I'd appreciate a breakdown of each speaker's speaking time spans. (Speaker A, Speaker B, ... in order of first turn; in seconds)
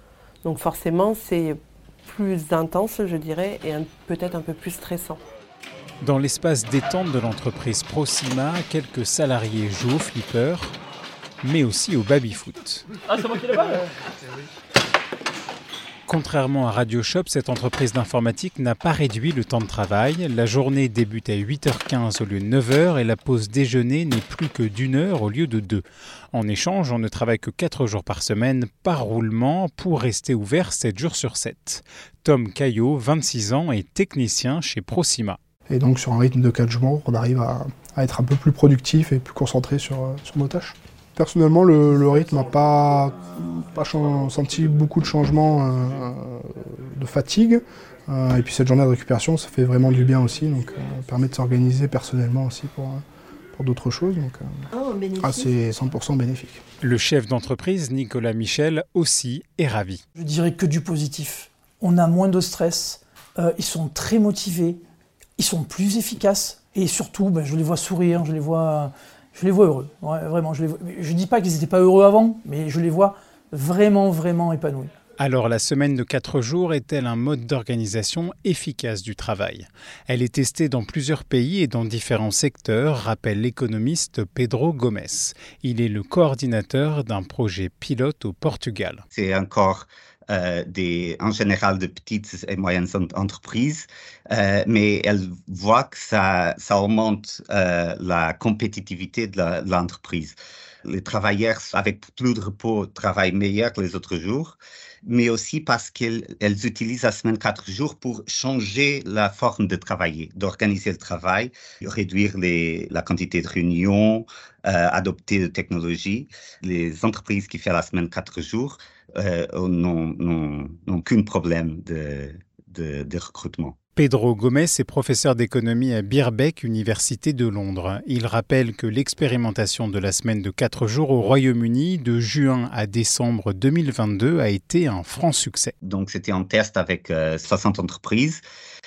Speaker A: 0.4-5.2
Speaker B: 6.0-10.8, 11.4-12.8, 16.1-35.4, 56.8-60.0, 75.2-89.0, 124.0-135.7
Speaker C: 35.7-53.0, 53.5-54.6, 55.2-56.6
Speaker D: 60.1-64.8, 65.4-74.9
Speaker E: 89.1-123.8, 135.8-138.4